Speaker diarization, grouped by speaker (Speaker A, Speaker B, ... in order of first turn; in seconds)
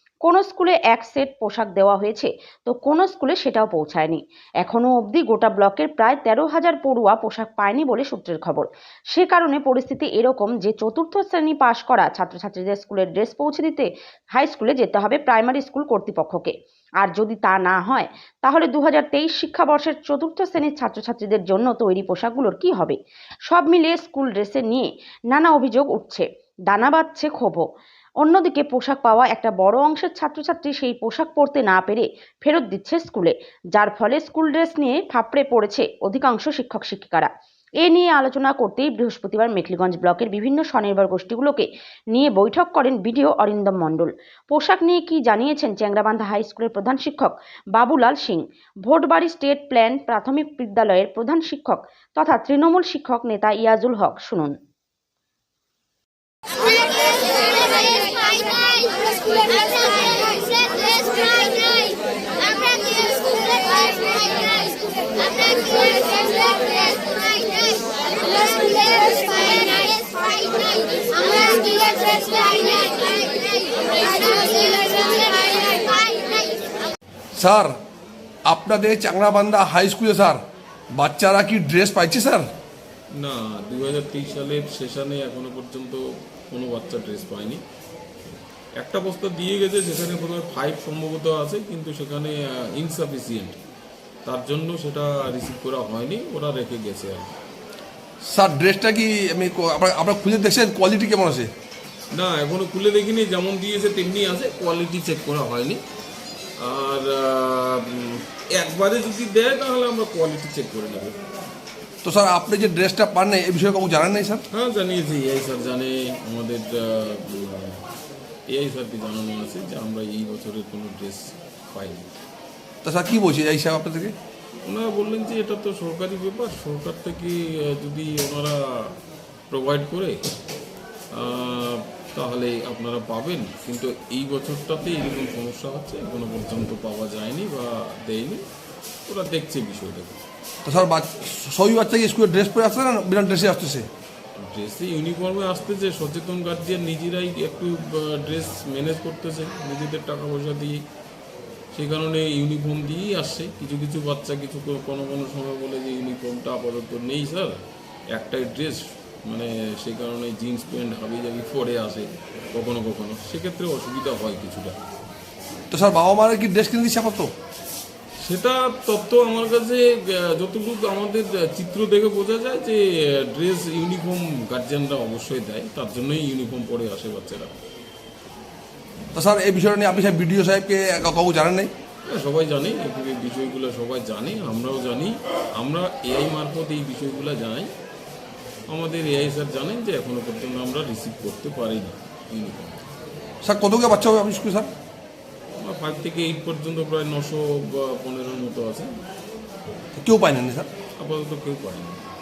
Speaker A: 0.2-27.6, 28.2-37.3, 37.8-54.5
Speaker B: 77.4-77.7, 78.5-80.4, 81.0-82.5, 98.2-101.5, 112.0-114.4, 122.8-124.1, 140.6-143.9, 165.7-167.3, 179.1-181.7, 193.4-194.7, 199.9-200.7
Speaker C: 83.1-87.6, 88.8-93.6, 94.2-97.3, 102.1-105.8, 106.6-111.2, 114.5-117.8, 118.5-122.1, 124.6-128.6, 129.5-130.2, 131.1-138.4, 139.1-140.2, 144.4-150.8, 151.7-157.6, 158.1-164.8, 168.2-177.5, 182.1-187.7, 188.7-192.8, 195.6-198.9, 201.0-202.0